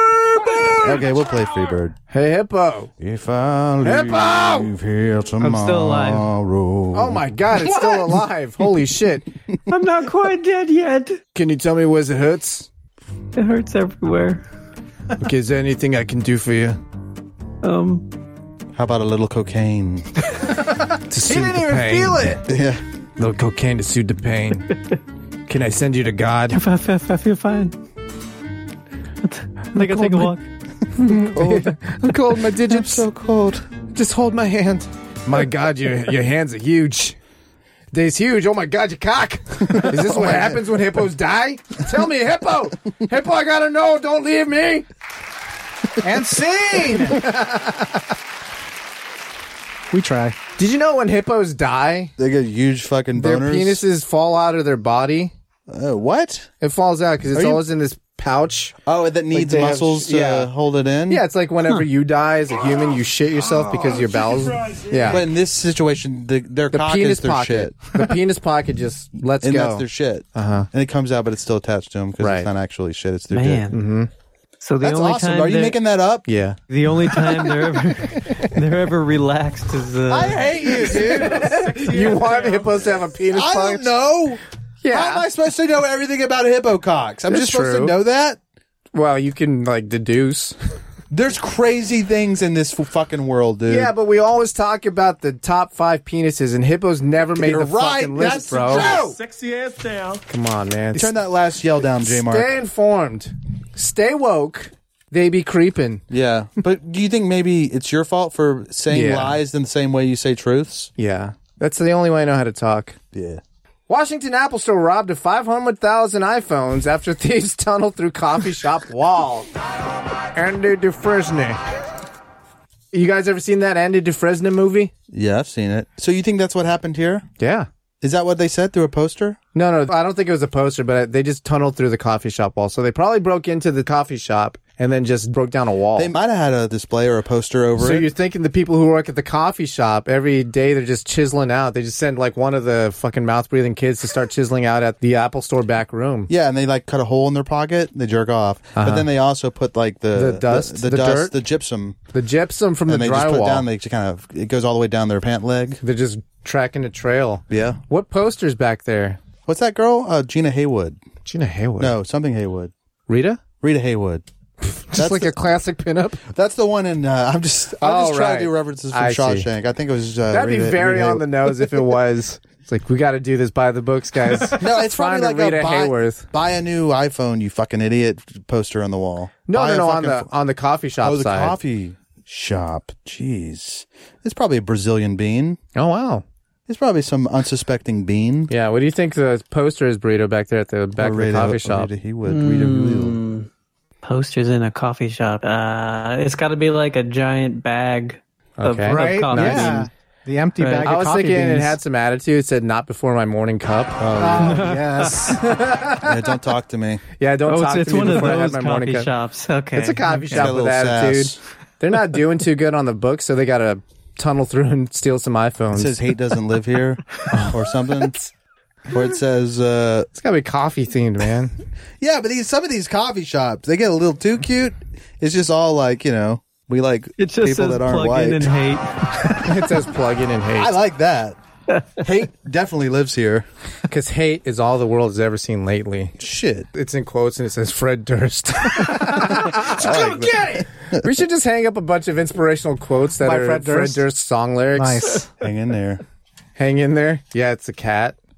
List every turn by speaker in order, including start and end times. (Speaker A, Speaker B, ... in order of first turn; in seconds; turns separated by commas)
Speaker A: 0.5-0.8, Speaker B: 0.7-1.9, Speaker A: 2.1-2.9, Speaker B: 3.0-7.2, Speaker A: 3.8-4.7, Speaker C: 5.4-6.3, Speaker A: 6.9-9.3, Speaker C: 9.7-11.2, Speaker A: 11.3-12.7, Speaker C: 13.3-14.4, Speaker A: 15.2-16.8, Speaker C: 17.6-18.1, Speaker B: 18.7-20.2, Speaker D: 20.4-22.4, Speaker A: 21.1-22.4, Speaker B: 22.4-22.8, Speaker A: 23.2-24.7, Speaker A: 25.5-26.6, Speaker C: 26.5-27.7, Speaker C: 29.2-30.4, Speaker A: 29.7-30.3, Speaker A: 30.9-33.0, Speaker B: 30.9-33.6, Speaker A: 33.9-37.1, Speaker A: 37.9-44.9, Speaker B: 39.7-40.6, Speaker D: 46.0-47.2, Speaker A: 47.1-48.0, Speaker D: 49.9-50.4, Speaker A: 50.6-52.1, Speaker B: 52.2-53.8, Speaker A: 53.1-55.3, Speaker B: 55.7-56.5, Speaker A: 56.6-58.7, Speaker B: 57.3-57.6, Speaker B: 58.9-61.2, Speaker A: 59.3-60.5, Speaker A: 61.1-65.2, Speaker B: 65.1-68.0, Speaker A: 66.7-70.7, Speaker B: 69.4-73.7, Speaker A: 72.2-72.5, Speaker C: 73.3-73.8, Speaker A: 73.7-74.1, Speaker C: 74.6-75.8, Speaker B: 74.8-76.3, Speaker A: 76.3-76.6, Speaker C: 76.7-81.0, Speaker A: 78.2-78.5, Speaker B: 80.1-81.7, Speaker A: 80.8-83.9, Speaker E: 81.4-82.8, Speaker B: 83.3-88.4, Speaker A: 84.8-85.2, Speaker A: 87.3-87.9, Speaker A: 88.9-90.5, Speaker B: 91.1-93.9, Speaker A: 93.7-99.0, Speaker B: 97.3-99.2, Speaker E: 98.6-100.2, Speaker A: 100.3-101.1, Speaker B: 100.9-102.5, Speaker A: 102.0-106.0, Speaker B: 106.1-110.9, Speaker A: 108.9-109.4, Speaker A: 111.0-113.0, Speaker B: 113.1-113.4, Speaker A: 113.9-119.5, Speaker A: 120.3-121.6, Speaker A: 122.9-124.9, Speaker B: 125.1-127.2, Speaker A: 127.4-127.7, Speaker B: 128.0-129.4, Speaker A: 129.5-136.1, Speaker B: 135.9-138.1, Speaker A: 137.8-146.3, Speaker B: 146.3-152.0, Speaker A: 148.8-149.1, Speaker A: 150.1-151.4, Speaker A: 152.1-153.7, Speaker B: 152.9-155.8, Speaker A: 155.8-159.2, Speaker B: 157.5-157.8, Speaker B: 159.4-161.0, Speaker A: 161.2-161.9, Speaker B: 161.8-162.7, Speaker A: 163.1-163.4, Speaker B: 163.6-164.2, Speaker A: 164.6-166.2, Speaker B: 164.9-165.3, Speaker B: 166.3-171.5, Speaker A: 167.8-169.5, Speaker A: 170.3-176.3, Speaker B: 174.6-180.3, Speaker A: 179.5-181.6, Speaker B: 181.0-185.6, Speaker A: 185.7-186.2, Speaker B: 186.7-188.5, Speaker A: 188.5-191.9, Speaker B: 190.9-193.2, Speaker C: 192.2-193.5, Speaker C: 194.0-199.9, Speaker A: 198.6-199.9, Speaker D: 198.9-201.8, Speaker C: 200.6-200.9, Speaker A: 200.8-204.6, Speaker B: 204.0-204.7, Speaker D: 204.2-205.4, Speaker C: 204.4-205.3, Speaker A: 205.3-206.2, Speaker B: 206.0-207.0, Speaker A: 207.2-209.1, Speaker C: 207.5-210.5, Speaker A: 209.8-216.0, Speaker B: 210.3-211.4, Speaker B: 215.7-218.2, Speaker A: 217.3-218.3, Speaker B: 218.9-220.1, Speaker A: 220.2-221.6, Speaker B: 222.0-228.5, Speaker C: 227.2-229.4, Speaker A: 229.4-230.7, Speaker B: 230.6-231.4, Speaker B: 232.0-233.5, Speaker A: 233.9-236.2, Speaker B: 236.2-236.7, Speaker A: 236.7-245.1, Speaker B: 239.5-241.1, Speaker D: 243.2-244.1, Speaker D: 244.7-245.3, Speaker B: 245.4-246.0, Speaker A: 246.6-248.2